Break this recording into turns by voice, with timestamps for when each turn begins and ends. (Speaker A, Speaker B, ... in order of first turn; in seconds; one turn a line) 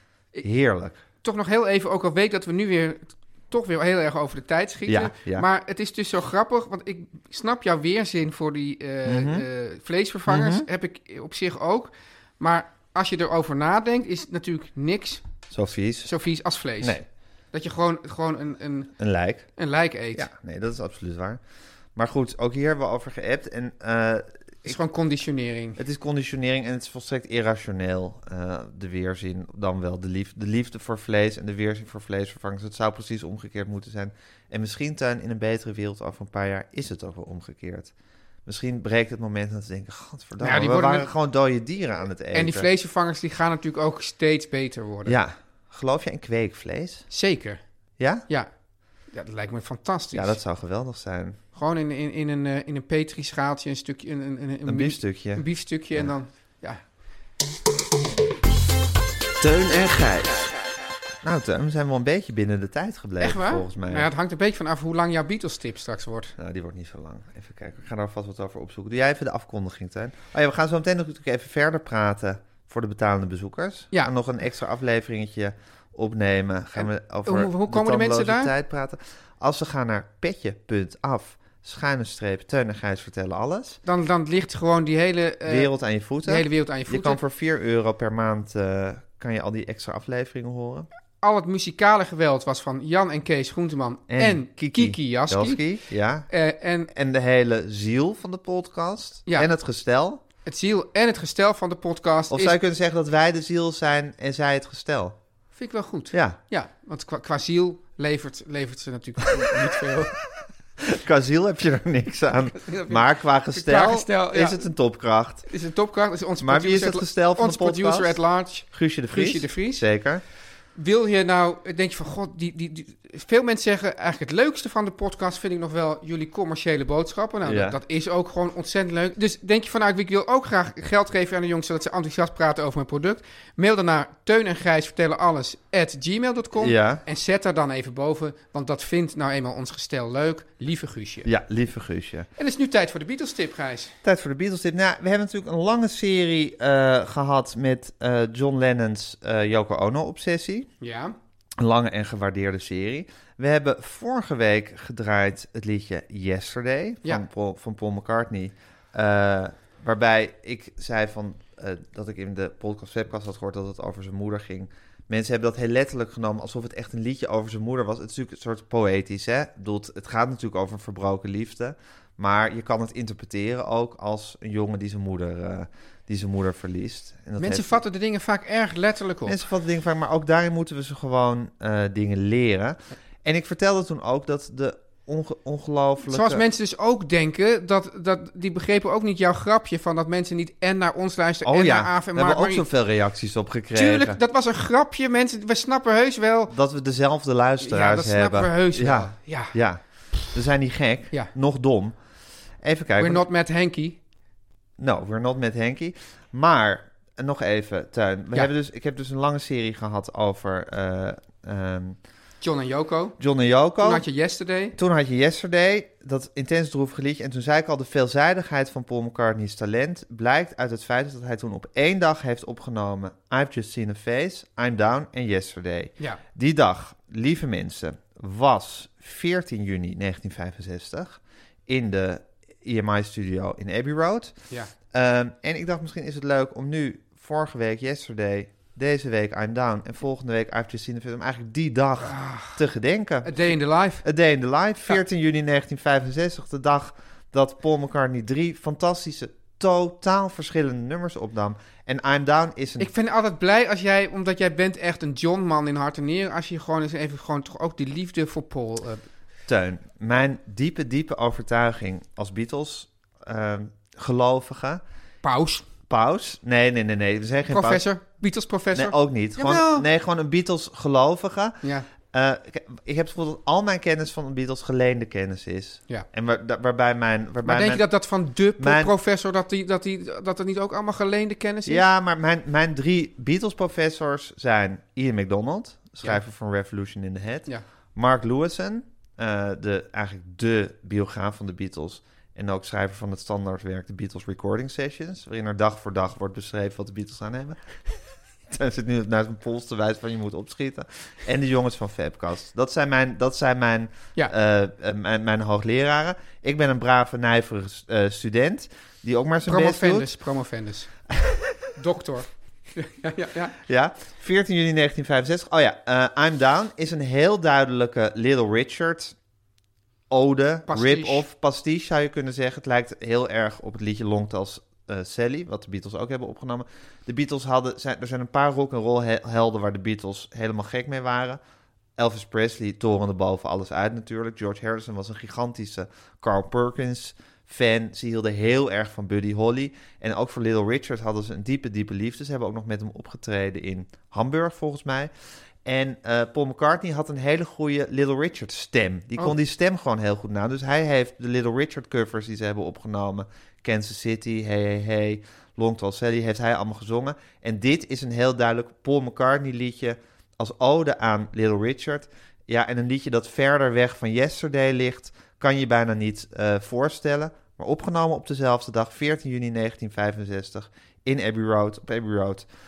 Speaker A: 0.4-1.0
Speaker B: 1.2-15.2
Speaker A: 4.9-5.5
Speaker A: 9.1-9.5
Speaker A: 10.3-10.7
Speaker A: 15.5-16.1
Speaker B: 16.1-17.0
Speaker B: 17.5-18.9
Speaker A: 19.0-19.5
Speaker B: 19.6-20.3
Speaker A: 20.1-21.4
Speaker A: 21.9-24.8
Speaker B: 24.6-25.8
Speaker A: 25.8-37.9
Speaker A: 38.5-42.7
Speaker B: 40.4-41.1
Speaker B: 42.3-45.1
Speaker A: 45.0-47.1
Speaker B: 47.1-47.6
Speaker A: 48.0-48.2
Speaker B: 49.1-50.4
Speaker A: 50.1-51.4
Speaker B: 51.5-56.8
Speaker A: 54.6-56.1
Speaker A: 59.4-60.4
Speaker A: 61.2-64.1
Speaker B: 63.2-66.3
Speaker A: 66.4-83.8
Speaker B: 76.8-78.5
Speaker B: 83.9-85.7
Speaker A: 85.5-90.9
Speaker B: 86.2-87.2
Speaker B: 91.2-95.6
Speaker A: 94.1-96.3
Speaker B: 96.3-96.9
Speaker A: 96.9-100.2
Speaker B: 100.5-102.6
Speaker A: 102.3-105.1
Speaker B: 105.5-110.2
Speaker A: 106.1-106.4
Speaker A: 110.8-115.5
Speaker B: 112.6-114.6
Speaker B: 115.5-119.8
Speaker A: 116.4-120.2
Speaker B: 120.8-141.3
Speaker A: 127.4-127.8
Speaker A: 136.6-137.0
Speaker A: 141.2-142.3
Speaker B: 142.4-143.9
Speaker A: 144.0-150.7
Speaker B: 150.8-151.1
Speaker A: 151.6-177.8
Speaker B: 177.4-179.4
Speaker A: 179.3-186.4
Speaker B: 186.1-192.7
Speaker A: 191.4-194.2
Speaker B: 193.7-196.5
Speaker A: 196.5-201.9
Speaker B: 197.6-199.6
Speaker A: 202.6-203.2
Speaker B: 203.0-204.0
Speaker A: 204.8-212.0
Speaker B: 212.4-213.2
Speaker A: 213.2-214.1
Speaker B: 213.8-214.8
Speaker A: 214.8-234.3
Speaker A: 234.9-252.9
Speaker B: 242.0-242.6
Speaker B: 243.2-244.1
Speaker B: 252.8-259.0
Speaker A: 259.5-264.8
Speaker B: 265.2-265.6
Speaker A: 265.9-267.8
Speaker B: 267.5-269.9
Speaker A: 268.7-271.6
Speaker B: 271.6-271.9
Speaker A: 272.1-277.8
Speaker B: 277.4-281.8
Speaker A: 278.6-278.9
Speaker A: 281.6-297.7
Speaker A: 298.5-310.1
Speaker B: 309.4-310.9
Speaker A: 311.2-311.5
Speaker B: 311.8-313.6
Speaker A: 313.6-319.1
Speaker A: 320.1-331.4
Speaker B: 320.7-321.2
Speaker A: 332.0-345.1
Speaker A: 345.6-372.5